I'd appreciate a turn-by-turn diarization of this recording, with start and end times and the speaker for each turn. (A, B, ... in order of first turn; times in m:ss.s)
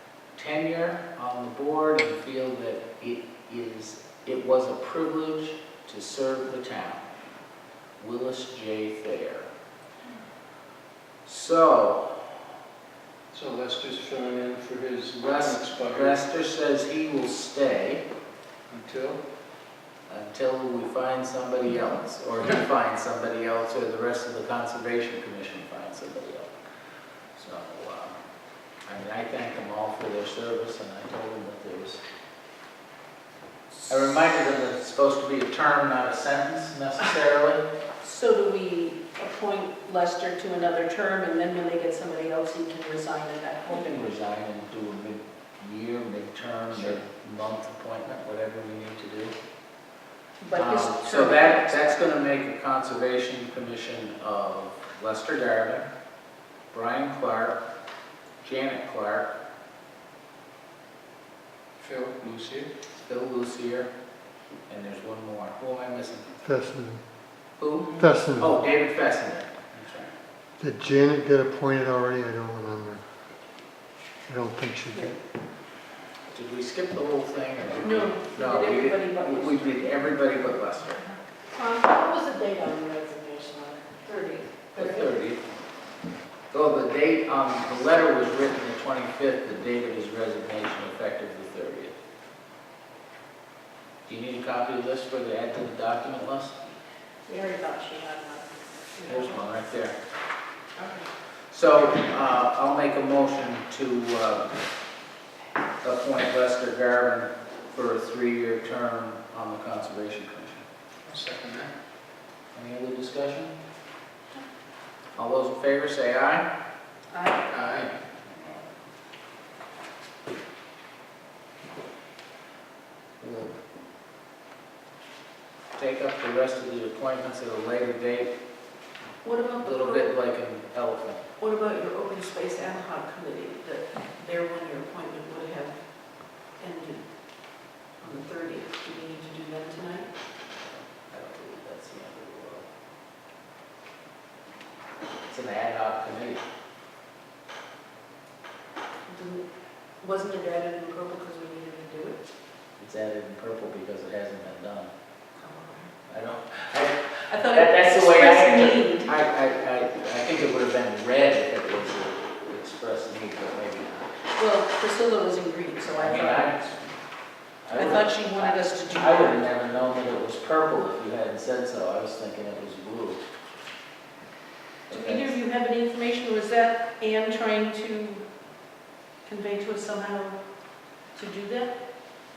0:00.4-0:07.0 A
0:08.0-0:09.5 A
0:11.2-0:12.3 A
0:13.3-0:16.2 B
0:15.3-0:18.0 A
0:18.7-0:19.2 B
0:20.1-0:26.5 A
0:27.4-0:28.2 A
0:28.8-0:32.0 A
0:33.9-0:37.6 A
0:38.0-0:43.9 C
0:43.7-0:49.3 A
0:50.4-0:51.8 C
0:50.5-0:55.9 A
0:56.7-0:57.6 A
0:58.4-0:59.3 A
1:01.8-1:02.7 B
1:03.0-1:03.9 A
1:04.7-1:06.4 A
1:06.4-1:07.0 D
1:07.6-1:10.1 A
1:08.0-1:08.5 D
1:10.6-1:13.0 D
1:14.3-1:15.2 D
1:16.3-1:21.0 A
1:17.8-1:20.0 C
1:21.5-1:25.0 C
1:24.7-1:25.4 A
1:26.5-1:31.9 A
1:34.1-1:36.6 A
1:37.3-1:39.4 C
1:39.0-1:39.9 A
1:40.8-1:41.0 C
1:41.5-1:44.5 A
1:45.8-1:50.6 A
1:51.0-1:51.7 B
1:52.5-1:53.5 A
1:55.2-1:56.5 A
1:57.1-1:57.4 C
1:57.5-1:57.9 B
2:03.2-2:03.5 A
2:05.7-2:08.3 A
2:09.2-2:10.1 C
2:09.6-2:11.2 A
2:11.4-2:20.1 C
2:21.0-2:22.7 A
2:25.3-2:26.4 A
2:29.1-2:29.5 C
2:30.0-2:32.2 C
2:32.8-2:34.9 A
2:35.4-2:35.9 C
2:36.1-2:44.1 A
2:37.3-2:39.1 C
2:44.4-2:46.6 C
2:46.0-2:46.8 A
2:47.6-2:53.2 A
2:47.7-2:49.4 C
2:54.9-2:55.3 A
2:54.9-2:58.2 C
2:59.2-3:01.7 C